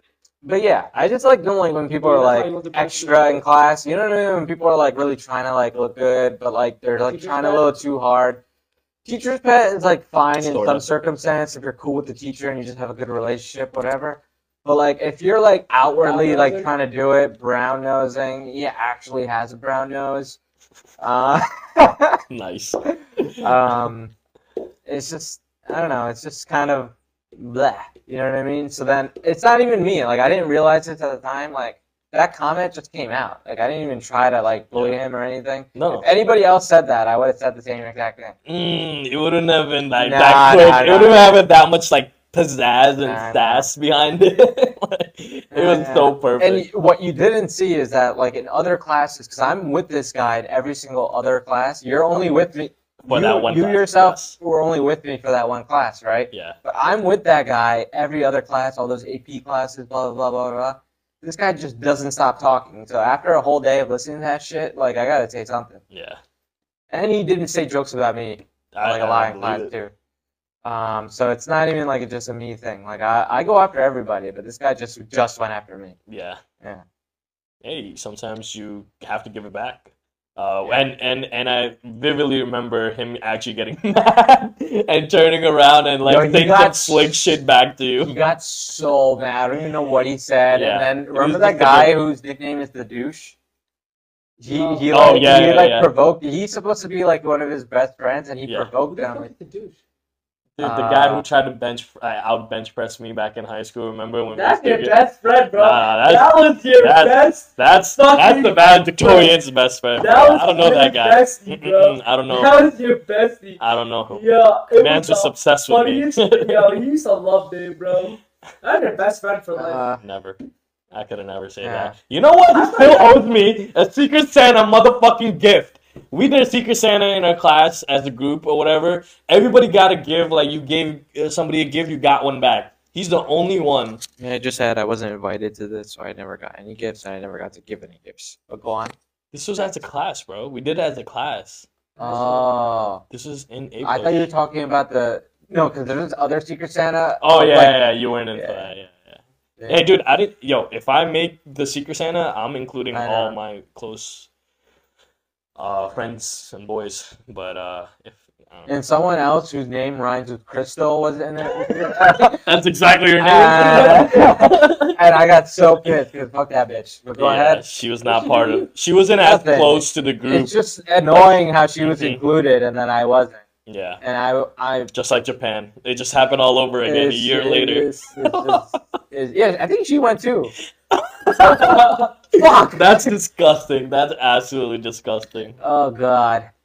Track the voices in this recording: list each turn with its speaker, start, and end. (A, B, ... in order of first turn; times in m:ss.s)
0:00.4-0:08.4 A
0:02.0-0:03.4 B
0:07.0-0:07.7 B
0:09.0-0:20.4 A
0:10.4-0:10.8 C
0:16.0-0:16.7 B
0:21.0-0:22.2 A
0:22.3-0:23.7 C
0:23.4-0:24.1 A
0:24.8-0:38.4 A
0:35.8-0:36.1 C
0:38.4-0:46.7 C
0:40.0-0:41.4 A
0:43.0-0:43.7 A
0:45.5-1:05.8 A
0:53.0-0:54.4 C
0:56.3-0:56.6 C
1:05.9-1:06.2 C
1:06.9-1:09.9 A
1:08.7-1:09.7 C
1:10.6-1:15.9 A
1:16.1-1:16.4 C
1:17.6-1:28.1 C
1:26.0-1:27.3 A
1:28.0-1:33.4 A
1:30.5-1:32.0 C
1:34.4-1:39.3 A
1:34.5-1:35.2 B
1:34.9-1:35.9 C
1:38.4-1:38.7 C
1:38.9-1:39.8 B
1:40.6-1:45.0 C
1:40.6-1:41.2 A
1:44.3-1:49.4 B
1:45.6-1:52.7 C
1:50.0-1:59.8 B
1:53.6-1:56.8 C
1:59.5-2:00.0 A
2:00.0-2:00.4 C
2:00.9-2:14.0 C
2:01.6-2:01.9 A
2:02.5-2:03.1 B
2:14.2-2:18.9 A
2:19.3-2:21.7 C
2:22.0-2:23.0 A
2:22.0-2:22.5 B
2:23.1-2:24.3 C
2:23.8-2:28.7 A
2:27.2-2:34.3 C
2:29.6-2:29.8 A
2:32.9-2:33.4 A
2:35.6-2:38.7 C
2:38.7-2:42.4 A
2:42.3-2:45.0 C
2:43.2-2:47.6 A
2:43.6-2:44.3 B
2:47.2-2:50.5 C
2:48.0-2:48.7 B
2:49.1-2:53.4 A
2:51.8-2:52.2 C
2:53.6-2:54.0 C
2:54.0-2:54.9 A
2:54.9-2:58.7 C
2:56.8-3:00.5 A
3:00.9-3:05.6 C
3:01.4-3:02.0 B
3:02.3-3:02.8 A
3:05.6-3:06.5 A